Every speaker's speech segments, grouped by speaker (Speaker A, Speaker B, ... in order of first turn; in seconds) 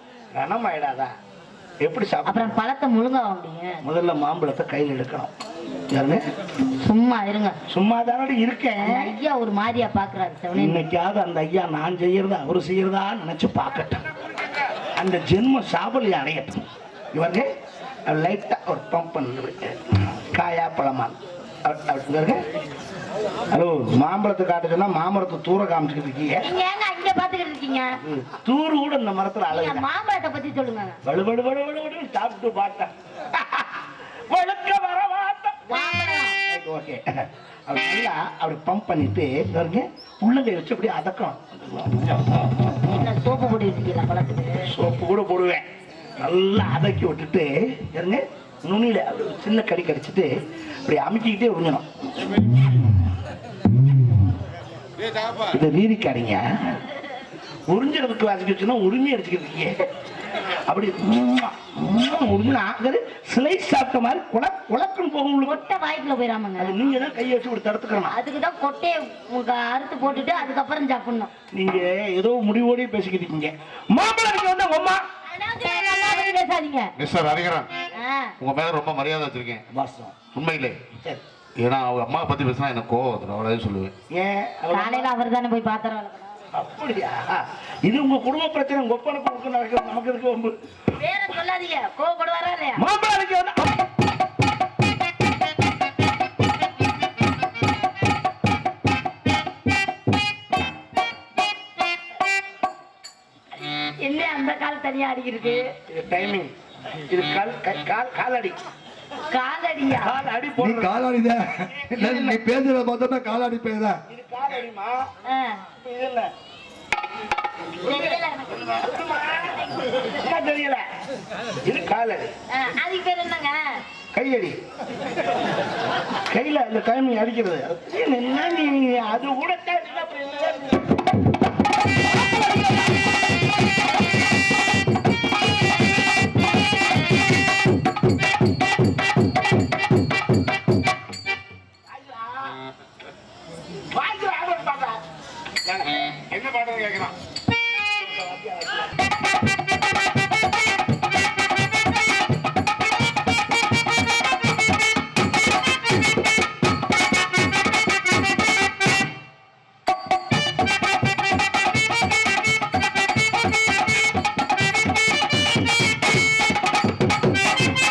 Speaker A: 0.3-1.1, 1.8-2.5, 3.8-5.3, 5.9-6.2, 7.7-9.1, 10.5-14.0, 14.9-17.5, 18.1-22.4, 23.5-26.4, 28.0-29.9, 31.0-35.7, 36.5-43.0, 44.6-45.6, 46.2-50.3, 50.8-52.6, 55.5-56.7, 57.7-59.8, 60.7-65.6, 66.6-68.2, 71.5-75.0, 79.7-80.2, 84.1-85.1, 86.5-90.5, 92.8-93.8, 105.9-106.5, 107.1-108.6, 109.9-111.0, 111.9-112.4, 114.1-115.1, 115.8-116.3, 118.7-120.8, 121.6-122.3, 124.1-124.6, 126.3-130.8, 141.9-142.6, 143.9-145.0, 147.9-148.9
Speaker B: 2.2-3.8, 6.8-7.6, 8.8-10.8, 26.4-28.0, 29.5-31.0, 35.7-36.4, 42.8-44.7, 65.5-66.7, 68.1-71.3, 75.2-76.9, 77.9-78.3, 84.7-86.3, 91.0-92.8, 103.8-105.7, 109.3-110.1, 115.2-115.6, 117.8-119.0, 122.5-123.8, 132.1-132.9
Speaker C: 77.0-77.7, 78.4-79.6, 80.3-80.8, 81.6-83.9, 145.8-147.1
Speaker D: 110.6-114.0